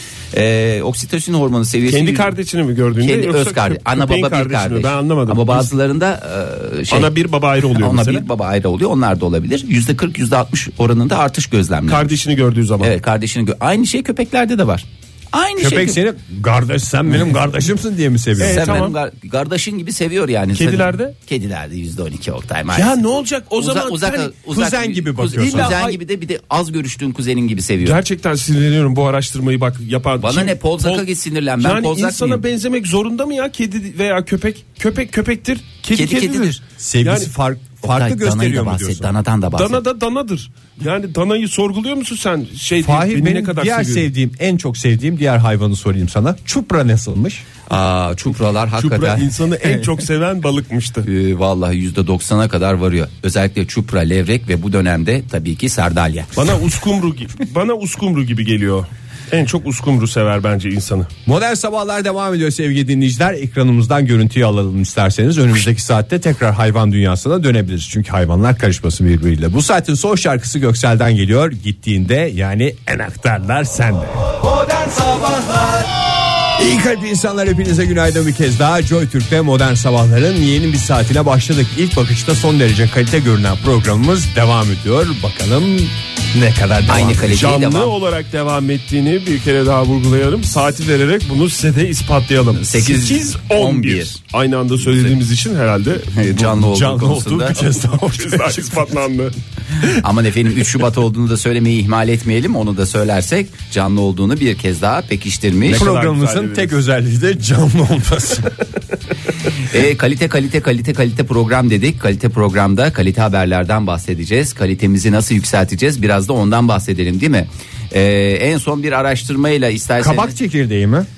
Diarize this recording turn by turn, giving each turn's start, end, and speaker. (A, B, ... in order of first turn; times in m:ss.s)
0:00.3-0:02.3 A
0:01.9-0:05.7 B
0:03.0-0:07.1 A
0:06.9-0:08.2 B
0:07.8-0:12.2 A
0:11.9-0:12.9 B
0:12.8-0:16.0 A
0:15.6-0:18.8 C
0:18.4-0:19.0 B
0:18.4-0:23.0 A
0:20.5-0:21.1 B
0:22.7-0:24.3 B
0:23.6-0:28.0 A
0:24.5-0:25.8 C
0:25.4-0:26.0 B
0:27.8-0:31.0 B
0:30.2-0:32.4 A
0:31.6-0:37.3 B
0:35.9-0:36.6 A
0:36.8-0:39.1 C
0:37.8-0:39.8 A
0:39.5-0:44.1 B
0:42.8-0:47.4 C
0:47.7-0:49.8 A
0:48.8-0:51.1 B
0:51.0-0:56.5 A
0:56.4-1:01.1 B
1:01.2-1:15.9 C
1:16.5-1:27.4 C
1:26.9-1:27.9 A
1:27.3-1:36.2 B
1:32.6-1:34.2 A
1:34.8-1:35.1 A
1:36.1-1:37.6 A
1:36.3-1:38.9 C
1:37.7-1:39.3 B
1:39.9-1:45.9 A
1:45.6-1:46.8 B
1:45.7-1:48.6 C
1:49.6-2:00.4 A
2:00.0-2:01.1 C